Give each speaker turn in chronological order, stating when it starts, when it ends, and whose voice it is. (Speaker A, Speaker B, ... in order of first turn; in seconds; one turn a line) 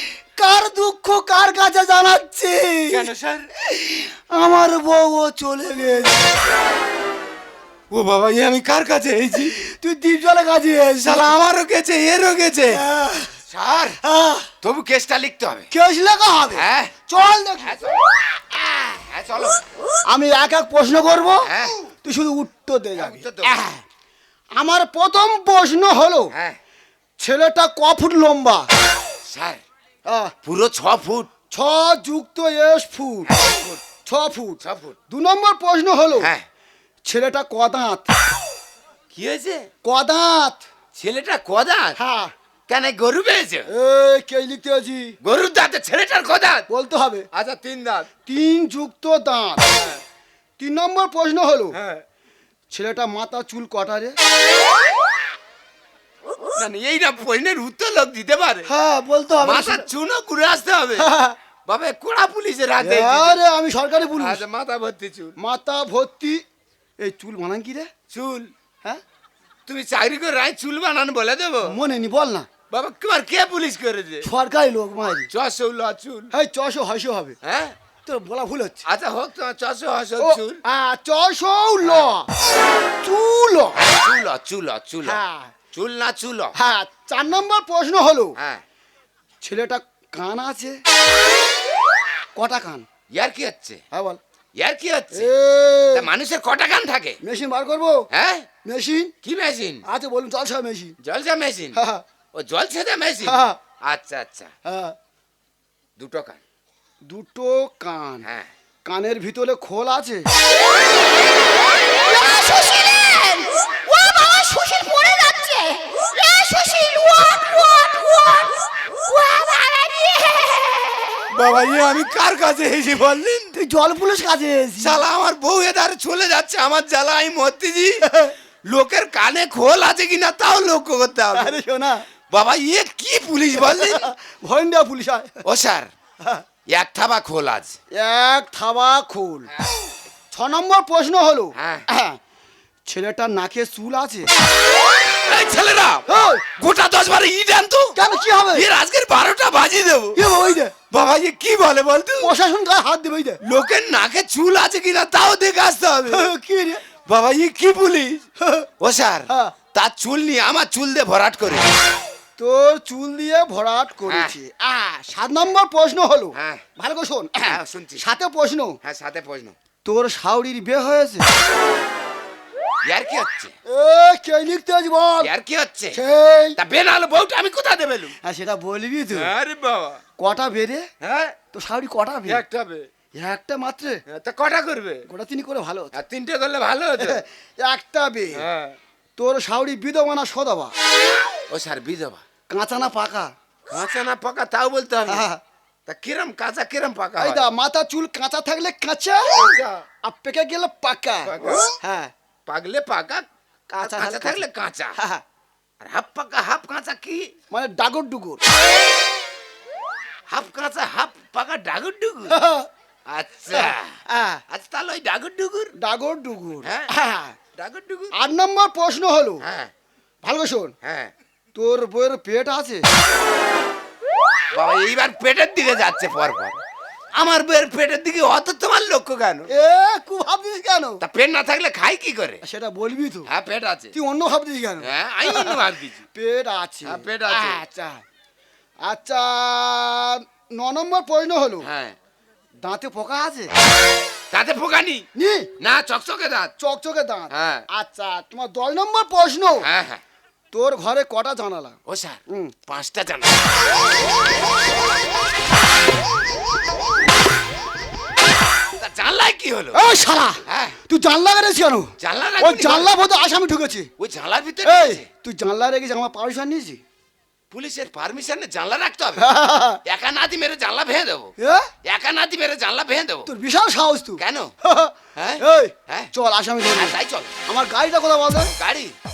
Speaker A: 0.4-3.1
Speaker B: 2.9-3.5
Speaker A: 3.6-6.3
Speaker B: 7.9-9.6
Speaker A: 9.5-11.4
Speaker B: 11.0-12.8
Speaker A: 12.7-13.3
Speaker B: 13.5-14.0
Speaker A: 14.1-14.5
Speaker B: 14.6-15.7
Speaker A: 15.7-17.8
Speaker B: 16.5-16.9
Speaker B: 17.6-18.0
Speaker B: 18.8-19.6
Speaker A: 20.1-21.5
Speaker B: 21.5-21.8
Speaker A: 22.0-23.7
Speaker B: 23.0-23.6
Speaker A: 24.6-26.3
Speaker A: 27.2-28.7
Speaker B: 29.3-29.6
Speaker A: 30.1-30.3
Speaker B: 30.4-31.3
Speaker A: 31.5-33.3
Speaker B: 33.3-33.8
Speaker A: 34.1-36.3
Speaker B: 34.6-35.0
Speaker B: 36.2-36.5
Speaker A: 37.1-38.1
Speaker B: 39.1-39.7
Speaker A: 39.8-40.6
Speaker B: 41.0-42.0
Speaker A: 42.0-42.3
Speaker B: 42.7-43.7
Speaker A: 43.7-45.2
Speaker B: 45.2-46.6
Speaker A: 46.7-47.3
Speaker B: 47.3-48.1
Speaker A: 48.3-49.6
Speaker A: 50.6-51.8
Speaker B: 51.8-52.0
Speaker A: 52.7-54.2
Speaker B: 56.6-58.7
Speaker A: 58.6-59.9
Speaker B: 59.4-61.1
Speaker A: 61.0-61.4
Speaker B: 61.7-63.4
Speaker A: 62.8-64.4
Speaker B: 64.2-65.3
Speaker A: 65.4-66.4
Speaker A: 67.0-67.9
Speaker B: 68.1-68.5
Speaker B: 69.7-71.8
Speaker A: 71.6-72.5
Speaker B: 72.7-74.2
Speaker A: 74.2-75.3
Speaker B: 75.3-76.3
Speaker A: 76.3-77.4
Speaker B: 77.4-77.8
Speaker A: 78.1-78.8
Speaker B: 78.9-80.6
Speaker A: 80.2-82.3
Speaker A: 83.0-83.8
Speaker B: 83.8-86.5
Speaker A: 85.0-85.5
Speaker A: 86.6-88.4
Speaker A: 89.4-90.8
Speaker A: 92.3-92.9
Speaker B: 93.1-93.8
Speaker A: 93.9-94.2
Speaker B: 94.6-95.3
Speaker A: 95.1-96.1
Speaker B: 95.9-97.2
Speaker A: 97.2-98.0
Speaker B: 98.1-98.5
Speaker A: 98.6-99.1
Speaker B: 99.2-99.8
Speaker A: 99.8-101.0
Speaker B: 101.0-101.8
Speaker A: 101.7-102.0
Speaker B: 102.3-104.5
Speaker A: 103.2-103.6
Speaker A: 104.7-105.0
Speaker B: 106.0-106.4
Speaker A: 107.0-108.3
Speaker A: 108.8-110.3
Speaker C: 112.1-118.5
Speaker C: 119.1-120.9
Speaker B: 121.3-123.5
Speaker A: 123.5-125.0
Speaker B: 124.8-128.0
Speaker A: 128.0-128.3
Speaker B: 128.7-131.6
Speaker A: 131.3-132.1
Speaker B: 132.3-134.1
Speaker A: 133.6-135.4
Speaker B: 135.4-135.9
Speaker B: 136.7-137.7
Speaker A: 137.9-139.5
Speaker A: 140.3-142.2
Speaker B: 141.6-141.8
Speaker A: 142.9-144.3
Speaker B: 145.2-146.0
Speaker A: 146.1-146.5
Speaker B: 146.6-147.9
Speaker A: 148.0-148.7
Speaker B: 148.5-150.2
Speaker A: 150.2-150.7
Speaker B: 150.9-152.3
Speaker A: 152.2-153.4
Speaker B: 153.4-156.3
Speaker A: 156.1-156.8
Speaker B: 157.1-158.2
Speaker A: 158.4-158.7
Speaker B: 158.8-161.7
Speaker A: 159.3-159.5
Speaker A: 162.4-168.8
Speaker B: 164.1-164.3
Speaker B: 166.3-166.6
Speaker B: 167.4-168.0
Speaker B: 168.8-169.6
Speaker A: 169.8-171.3
Speaker B: 172.8-173.6
Speaker A: 173.7-175.3
Speaker B: 175.2-176.0
Speaker A: 175.9-176.6
Speaker B: 176.6-178.1
Speaker A: 178.2-179.3
Speaker B: 179.1-180.0
Speaker A: 180.2-180.9
Speaker B: 181.0-181.3
Speaker A: 181.5-182.4
Speaker B: 182.3-182.9
Speaker A: 183.2-184.0
Speaker B: 184.1-185.0
Speaker A: 185.1-185.9
Speaker B: 185.9-187.2
Speaker A: 187.0-188.5
Speaker B: 188.4-188.8
Speaker A: 189.2-190.7
Speaker B: 191.5-192.2
Speaker A: 192.5-193.3
Speaker B: 193.7-195.2
Speaker A: 195.1-195.4
Speaker B: 195.9-197.5
Speaker A: 197.2-199.5
Speaker B: 199.3-199.8
Speaker A: 200.0-202.1
Speaker B: 201.3-201.7
Speaker B: 202.5-203.2
Speaker A: 203.7-204.4
Speaker B: 203.8-205.0
Speaker A: 205.0-205.2
Speaker B: 205.8-207.3
Speaker A: 207.5-208.4
Speaker B: 210.3-212.3
Speaker A: 212.3-212.7
Speaker B: 213.1-213.9
Speaker A: 213.5-214.4
Speaker B: 214.5-215.7
Speaker A: 215.8-217.3
Speaker B: 217.6-218.1
Speaker A: 218.2-219.4
Speaker B: 219.4-219.7
Speaker A: 220.2-220.7
Speaker B: 220.8-221.1
Speaker A: 221.6-222.9
Speaker B: 224.5-226.6
Speaker B: 227.1-229.5
Speaker A: 229.5-231.0
Speaker B: 231.0-232.4
Speaker A: 232.4-233.3
Speaker B: 233.3-233.9
Speaker A: 233.9-235.6
Speaker B: 234.8-236.0
Speaker A: 236.2-238.0
Speaker B: 236.8-237.7
Speaker A: 238.8-241.7
Speaker B: 241.6-241.9
Speaker A: 242.6-243.5
Speaker B: 244.3-245.1
Speaker A: 245.2-245.5
Speaker B: 245.6-246.5
Speaker A: 246.6-249.7
Speaker B: 247.3-247.6
Speaker B: 249.6-250.0
Speaker A: 250.5-251.8
Speaker B: 251.9-253.4
Speaker A: 252.3-252.6
Speaker B: 258.8-259.8
Speaker A: 259.7-263.9
Speaker B: 260.5-260.8
Speaker B: 262.0-262.9
Speaker B: 264.0-265.0
Speaker A: 264.6-266.8
Speaker B: 267.5-269.3
Speaker A: 269.2-269.8
Speaker B: 269.9-271.3
Speaker A: 271.4-271.7
Speaker B: 271.9-273.3
Speaker A: 273.3-278.5
Speaker B: 274.2-274.5
Speaker B: 275.2-276.1
Speaker B: 276.7-277.3
Speaker B: 278.6-278.9